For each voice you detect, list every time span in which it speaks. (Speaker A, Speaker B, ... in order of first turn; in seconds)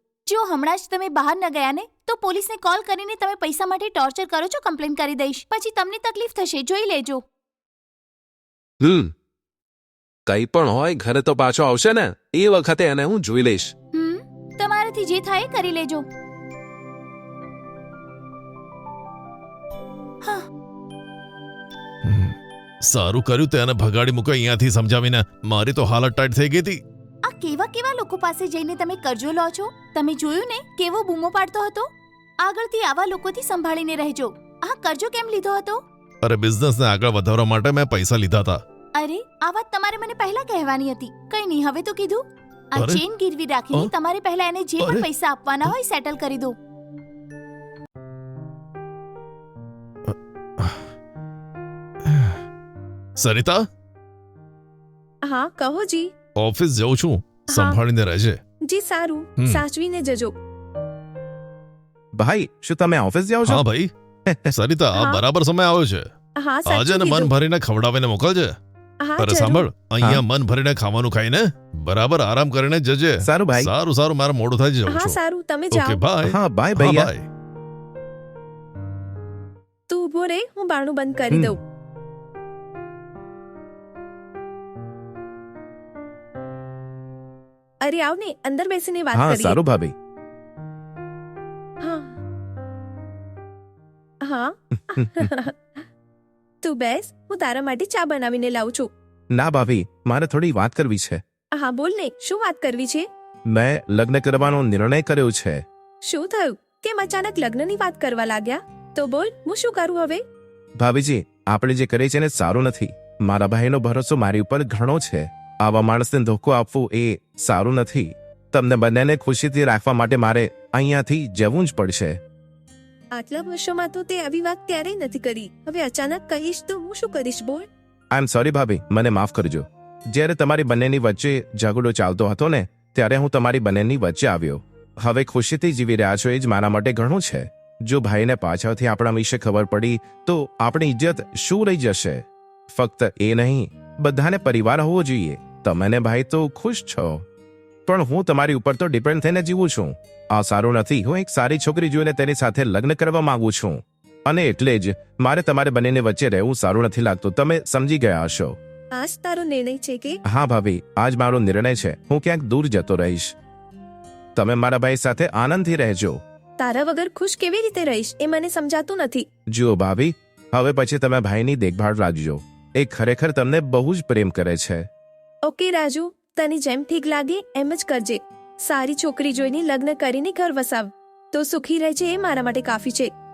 Speaker A: 0.3-7.2, 13.9-16.1, 27.2-31.9, 32.4-35.8, 39.0-46.5
Speaker B: 8.8-9.1, 10.3-13.7
Speaker C: 22.0-26.8, 36.2-38.6, 42.8-43.0, 44.8-45.1, 50.1-50.9, 52.0-52.4, 53.2-53.6, 56.4-58.4, 63.5-63.9, 64.5-66.1, 66.7-68.5, 69.2-75.2, 75.7-77.3
Speaker D: 55.2-56.1, 57.5-57.8, 58.7-60.3, 64.9-65.2, 66.4-67.3, 69.0-69.7, 74.9-76.0, 79.9-81.6, 87.8-89.6, 91.8-92.2, 94.2-95.8, 96.6-98.9, 101.6-103.0, 106.1-110.2, 123.2-127.7, 159.0-160.2, 166.6-169.2, 175.5-183.1
Speaker E: 62.2-63.6, 64.3-64.5, 73.2-73.7, 76.2-77.1, 81.3-81.6, 89.1-89.9, 95.0-95.3, 99.3-101.2, 103.5-105.6, 110.8-122.2, 128.1-147.2, 147.9-158.6, 160.3-163.3, 164.4-166.2, 169.5-174.9